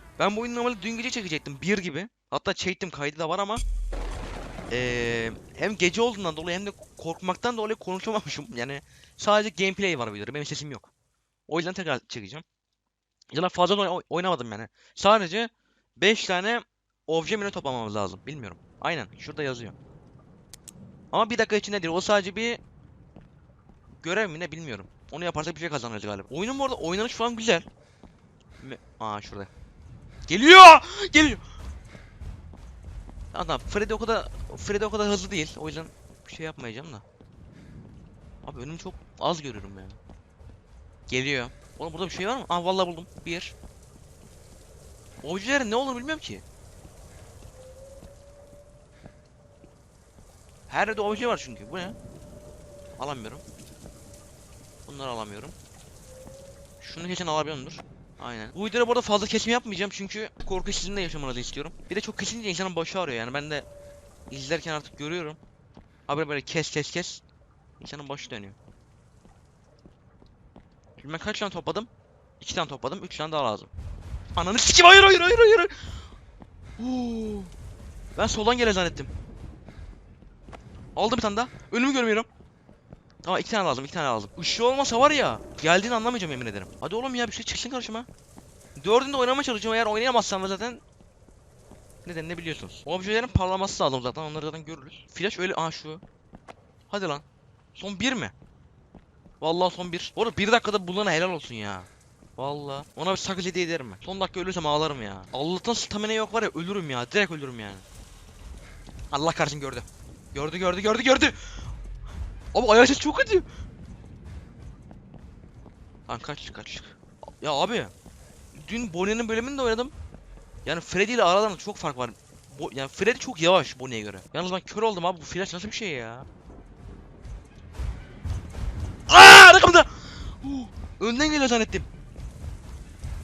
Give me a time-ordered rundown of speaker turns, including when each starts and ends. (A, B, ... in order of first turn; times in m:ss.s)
0:00.2-0:03.6 A
0:04.7-0:10.9 A
0:11.5-0:12.4 A
0:13.3-0:19.8 A
0:21.1-0:22.6 A
0:24.0-0:27.7 A
0:28.6-0:29.5 A
0:30.3-0:31.4 A
0:33.3-0:37.0 A
0:38.4-0:40.0 A
0:41.1-0:43.6 A
0:45.2-0:46.4 A
0:50.7-0:52.0 A
0:53.0-0:53.4 A
0:54.9-0:55.6 A
0:56.8-1:03.7 A
1:04.3-1:05.4 A
1:06.1-1:07.2 A
1:07.8-1:08.6 A
1:11.0-1:13.7 A
1:14.4-1:15.7 A
1:16.8-1:17.5 A
1:18.2-1:19.1 A
1:21.0-1:22.3 A
1:23.2-1:28.1 A
1:28.8-1:30.8 A
1:32.0-1:36.0 A
1:36.9-1:37.2 A
1:37.8-1:38.3 A
1:39.4-1:47.8 A
1:49.1-1:51.6 A
1:52.5-1:53.4 A
1:56.1-1:57.9 A
1:58.5-1:59.9 A
2:00.6-2:06.3 A
2:09.1-2:11.9 A